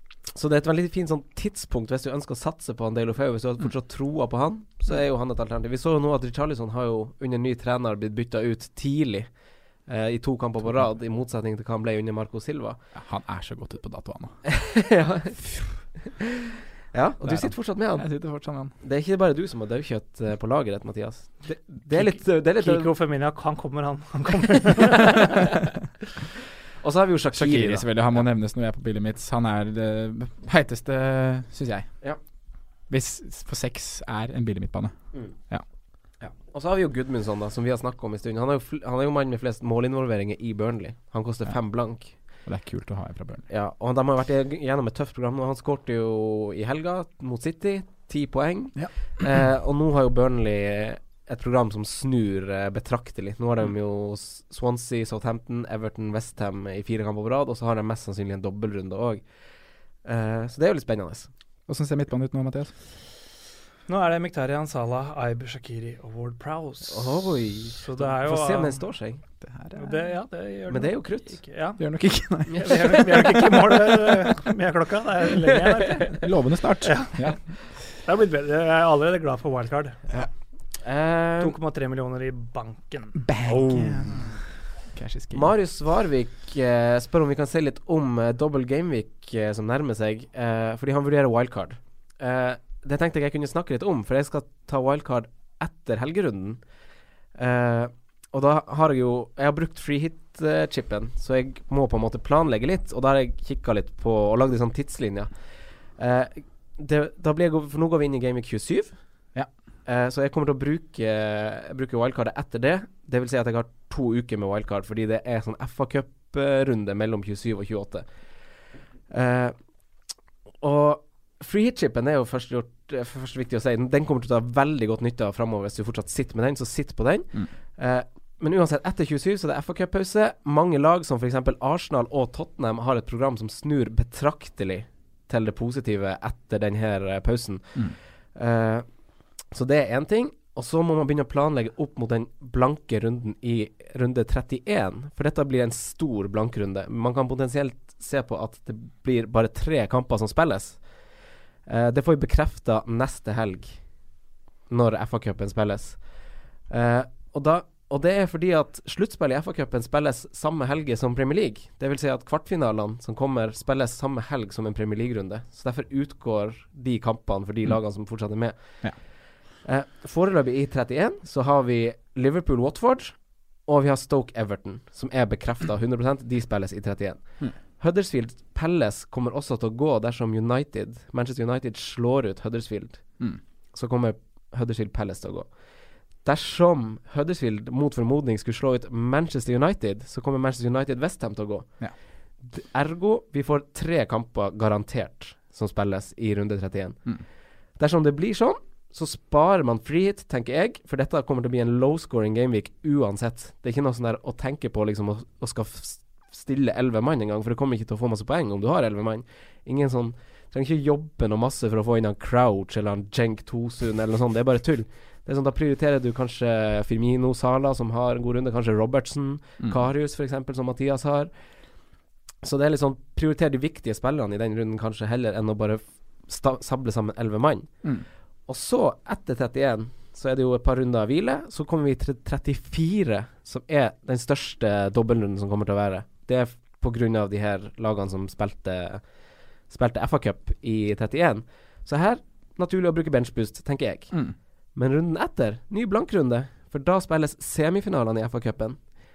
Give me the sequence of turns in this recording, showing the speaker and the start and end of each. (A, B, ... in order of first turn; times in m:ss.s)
0:00.3-0:09.3 A
0:09.8-0:12.8 A
0:12.9-0:14.4 B
0:14.4-0:15.4 A
0:15.4-0:15.7 B
0:16.1-0:16.3 A
0:16.9-0:18.1 A
0:17.2-0:18.7 B
0:18.8-0:22.9 A
0:22.0-0:25.5 C
0:26.8-0:28.2 A
0:27.3-0:31.9 B
0:32.9-0:35.6 B
0:36.2-0:42.2 A
0:42.4-0:43.4 B
0:43.5-0:59.2 A
1:00.0-1:01.3 A
1:01.7-1:02.7 B
1:03.9-1:08.8 C
1:06.9-1:09.2 A
1:09.4-1:09.9 B
1:09.8-1:11.8 C
1:10.7-1:11.4 A
1:11.8-1:13.6 B
1:12.5-1:13.5 A
1:12.6-1:16.2 C
1:16.2-1:17.4 B
1:16.8-1:17.3 C
1:18.0-1:20.0 C
1:20.8-1:21.6 A
1:21.4-1:23.2 C
1:23.2-1:24.4 B
1:24.9-1:25.5 B
1:25.3-1:36.6 A
1:37.4-1:45.3 A
1:46.0-1:49.0 A
1:49.8-1:58.1 A
1:59.1-1:59.6 A
2:00.6-2:18.8 A
2:19.5-2:30.8 A
2:31.6-2:33.8 A
2:34.7-2:36.0 A
2:36.7-2:48.9 A
2:49.6-3:03.0 A
3:03.7-3:05.5 A
3:06.2-3:11.8 A
3:12.5-3:17.0 A
3:17.8-3:41.3 A
3:42.4-3:47.7 A
3:48.5-3:59.0 A
3:59.7-4:04.2 A
4:04.7-4:08.8 A